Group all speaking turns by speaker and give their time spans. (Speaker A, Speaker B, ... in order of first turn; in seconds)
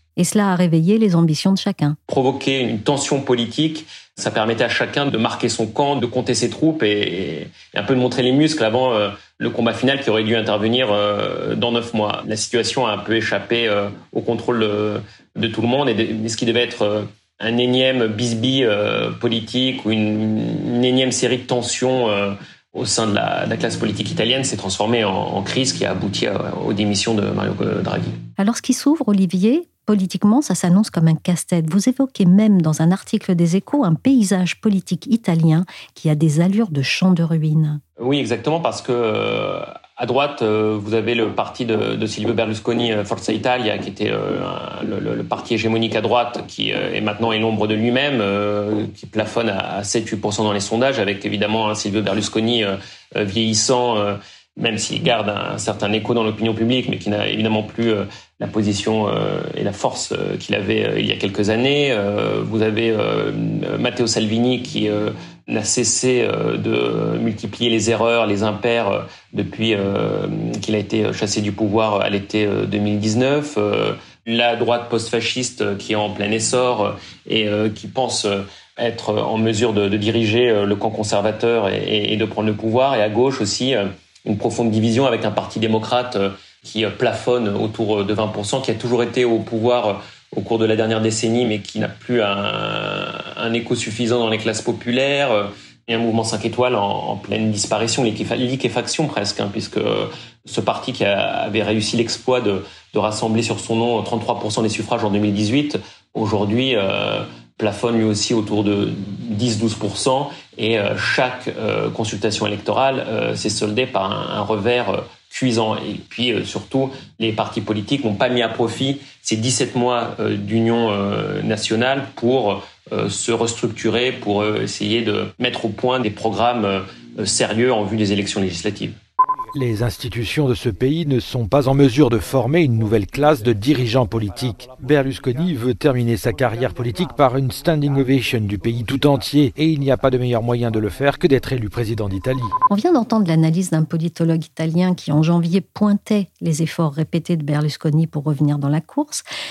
Speaker A: 0.2-2.0, 28.4-37.8, 142.7-149.2
Speaker B: 2.1-28.2, 38.0-129.0
Speaker C: 129.6-142.5